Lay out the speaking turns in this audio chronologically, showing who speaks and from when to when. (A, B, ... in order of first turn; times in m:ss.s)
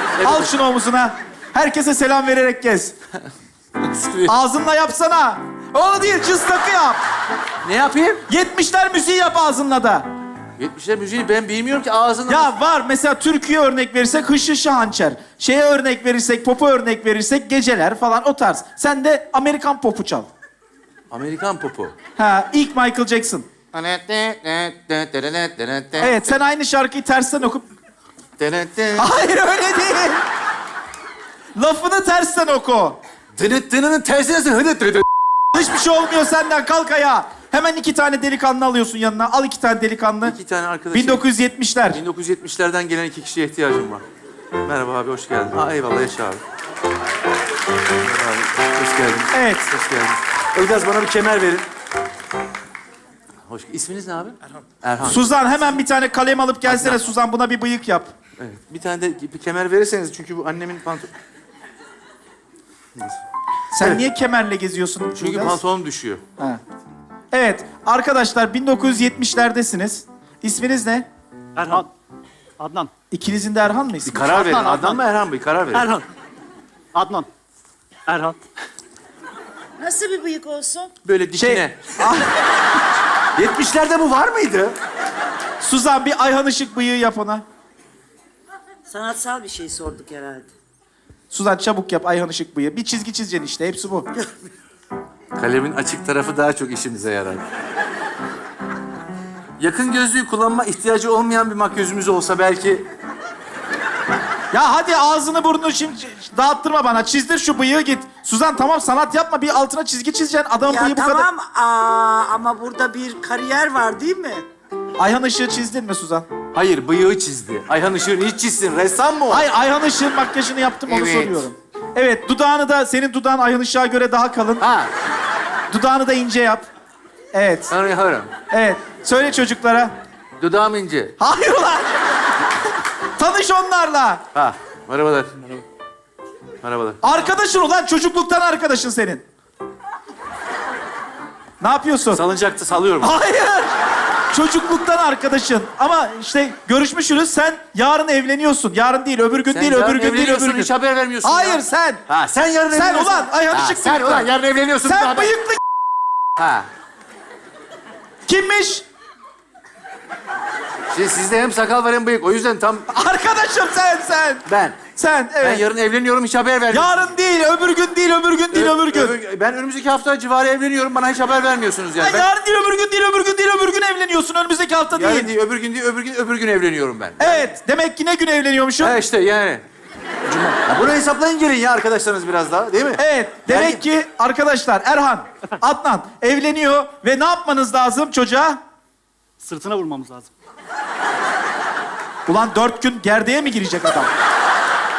0:00.2-0:00.5 A
0:00.2-0:02.9 B
0:03.8-0:04.3 A
0:04.2-0:07.0 B
0:07.6-0:08.2 A
0:08.3-0:10.0 B
0:10.6-0:12.6 A
0:12.3-0:20.3 B
0:21.1-0:21.9 A
0:22.2-0:23.5 B
0:23.7-0:26.4 A
0:26.0-0:27.6 B
0:28.4-0:29.1 A
0:29.0-0:30.2 B
0:31.6-0:33.0 B
0:33.4-0:35.0 A
0:35.5-0:40.4 B
0:40.2-0:41.2 A
0:40.9-0:42.0 B
0:41.9-0:44.0 A
0:44.6-0:46.4 A
0:48.0-0:51.6 A
0:49.3-0:49.7 B
0:53.5-0:55.3 A
0:55.0-0:58.1 B
0:56.6-0:57.0 A
0:58.4-1:01.1 A
1:03.7-1:05.6 B
1:05.1-1:06.2 A
1:07.3-1:11.1 B
1:11.6-1:11.9 C
1:12.6-1:12.9 C
1:13.1-1:14.6 B
1:14.0-1:15.9 A
1:14.4-1:15.0 C
1:15.7-1:16.1 C
1:16.9-1:17.3 C
1:18.1-1:18.4 C
1:19.8-1:20.9 D
1:21.0-1:22.1 A
1:21.4-1:22.3 B
1:23.4-1:24.7 A
1:25.6-1:27.4 B
1:28.9-1:30.5 D
1:31.3-1:34.1 B
1:35.3-1:37.4 A
1:39.6-1:42.8 A
1:44.5-1:51.3 B
1:50.6-1:54.4 D
1:55.0-1:56.3 B
1:56.5-1:59.5 A
1:59.3-2:04.6 B
2:00.8-2:01.4 A
2:04.6-2:04.9 A
2:05.7-2:06.6 B
2:07.3-2:07.7 B
2:07.7-2:08.3 A
2:08.5-2:09.9 B
2:10.4-2:11.1 A
2:11.2-2:12.0 B
2:13.2-2:14.2 B
2:14.3-2:15.6 A
2:16.6-2:17.0 A
2:17.0-2:19.2 B
2:21.6-2:22.2 B
2:22.1-2:23.2 A
2:23.0-2:23.7 B
2:24.3-2:30.7 B
2:29.5-2:35.3 A
2:31.2-2:32.0 B
2:32.7-2:34.3 B
2:34.8-2:35.6 B
2:36.4-2:36.7 A
2:38.2-2:38.8 B
2:40.9-2:42.9 A
2:42.9-2:45.6 B
2:44.4-2:44.8 A
2:45.4-2:47.1 A
2:46.7-2:49.2 B
2:48.5-2:52.3 A
2:52.0-2:55.3 B
2:54.9-2:57.5 A
2:57.2-2:59.0 B
2:58.8-2:59.6 A
3:00.3-3:03.8 A
3:03.0-3:08.6 B
3:09.4-3:10.3 C
3:12.2-3:14.1 B